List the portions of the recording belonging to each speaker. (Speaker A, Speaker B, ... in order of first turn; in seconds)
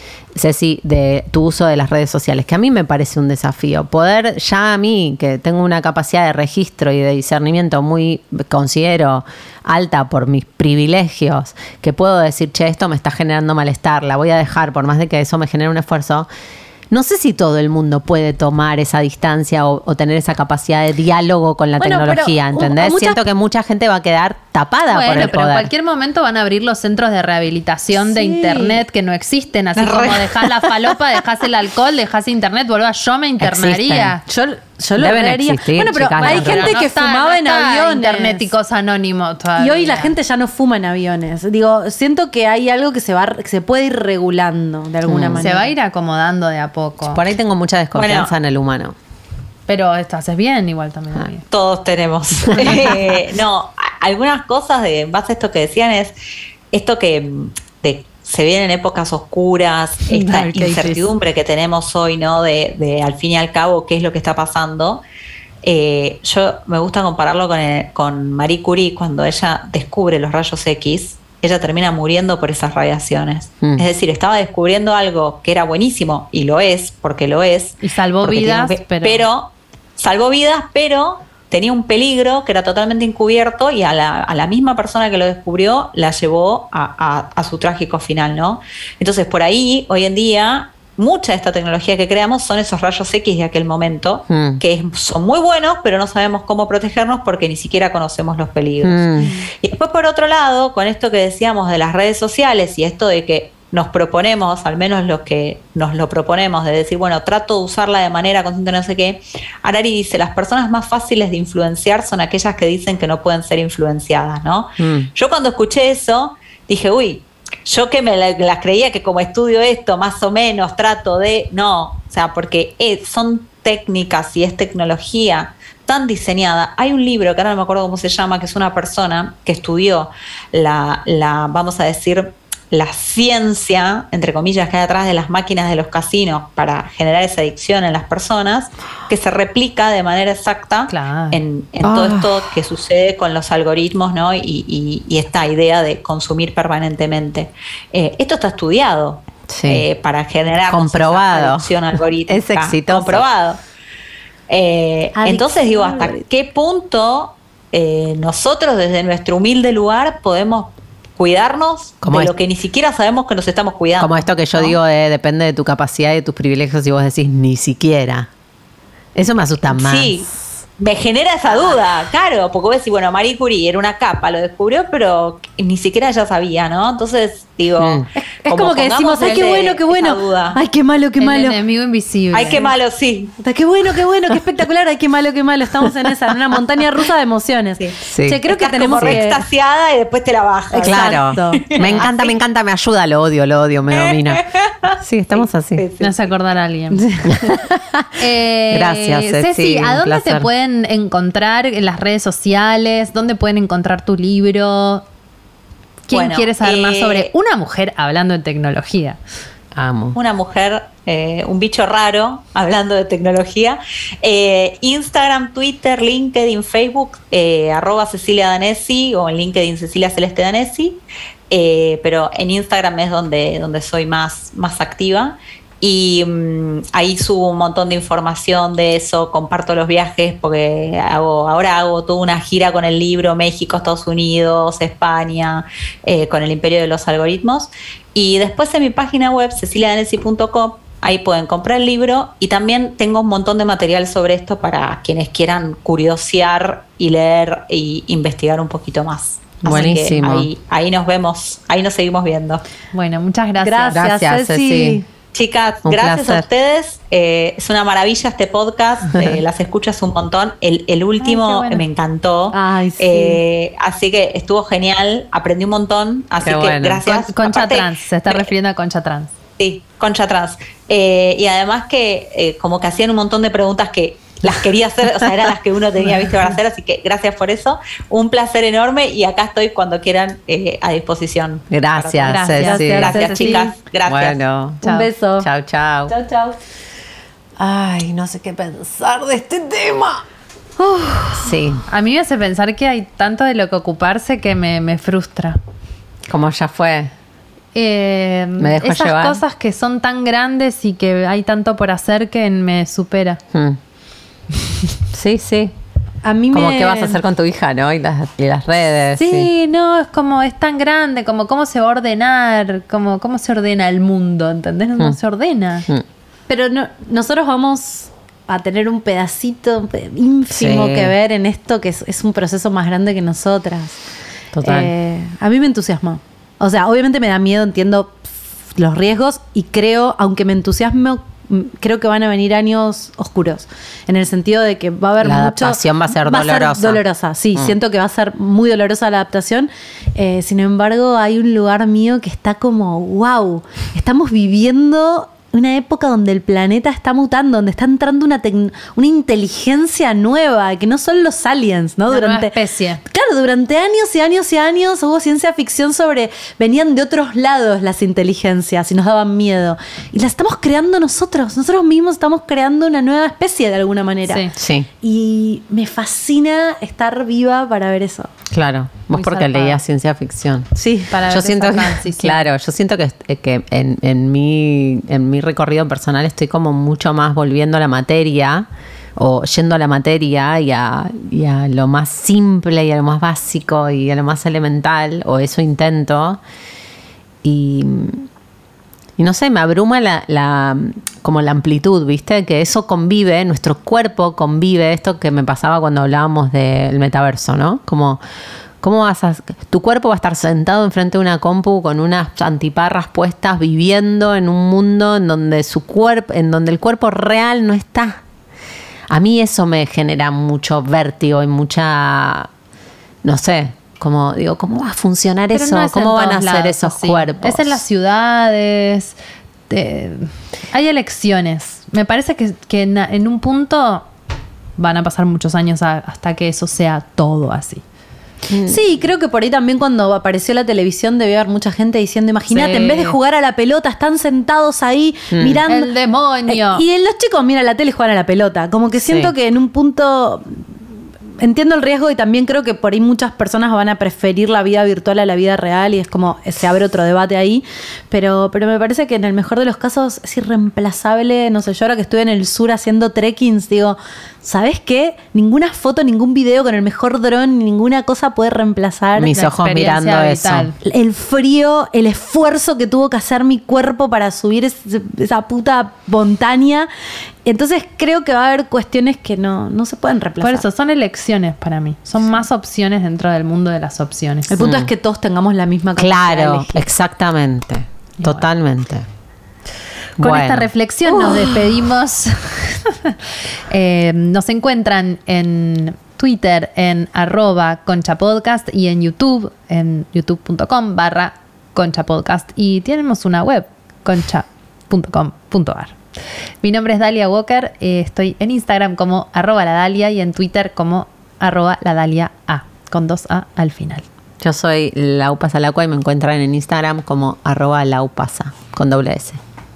Speaker A: 0.3-16.3, 16.9-25.7, 29.8-30.1, 33.4-34.2, 35.0-36.8, 45.1-45.5, 47.1-49.0, 52.5-53.1, 94.3-94.6, 98.8-99.3, 114.8-115.1, 141.8-142.5, 149.5-149.8, 150.7-153.2, 162.0-162.3, 164.0-168.3, 169.1-170.2, 177.8-178.1, 188.1-188.4, 190.8-194.4, 195.0-195.8, 197.3-200.5, 209.7-210.2, 249.6-250.5, 253.9-255.0, 255.8-256.5, 259.1-259.4, 266.4-267.0, 281.7-283.1, 284.1-284.8, 285.4-286.1, 287.6-290.2, 291.3-291.8, 296.3-297.1, 298.6-299.4, 303.5-303.8, 305.1-305.7, 306.5-309.5, 320.5-321.1, 324.5-324.9, 335.2-337.0, 364.6-364.9, 368.5-386.4, 387.4-388.3, 389.2-398.2, 398.8-408.2, 409.1-412.5, 413.2-417.8, 428.5-428.8, 435.3-435.6, 439.0-439.3, 459.1-460.7, 474.6-474.9, 476.0-479.1, 480.2-480.7, 504.4-509.4
Speaker B: 21.8-23.2, 28.0-28.8, 34.3-38.5, 39.6-45.7, 155.2-156.2, 178.2-181.6, 183.4-189.4, 190.7-191.7, 196.9-197.4, 253.6-255.0, 262.5-263.4, 282.6-283.7, 284.8-285.5, 286.1-286.6, 290.9-291.4, 306.2-307.2, 316.5-324.0, 324.6-364.4, 365.0-368.3, 370.8-371.1, 428.6-435.9, 436.4-440.6, 441.4-459.3, 460.8-466.9, 467.4-470.6, 474.5-476.9
Speaker C: 24.9-34.2, 36.2-40.1, 45.4-47.2, 49.7-51.5, 60.1-61.0, 77.8-79.3, 140.9-141.4, 181.2-182.7, 196.0-197.2, 198.2-205.0, 206.1-209.2, 252.9-254.0, 261.2-261.8, 267.0-269.3, 282.2-283.7, 284.8-285.1, 291.9-295.6, 297.7-303.4, 309.2-315.9, 352.1-353.0, 364.3-364.5, 369.1-369.8, 371.1-372.4, 415.5-419.2, 419.7-424.1, 424.8-427.8, 432.5-433.1, 435.7-436.8, 459.3-460.7, 470.4-474.5, 480.2-483.2, 483.7-496.0, 496.6-504.1
Speaker D: 29.9-30.2, 47.9-48.3, 51.5-56.1, 56.7-65.0, 65.6-153.6, 154.5-164.7, 169.7-180.6, 182.3-183.3, 187.8-192.3, 194.0-196.3, 206.1-207.3, 210.1-252.6, 255.3-268.5, 269.6-284.4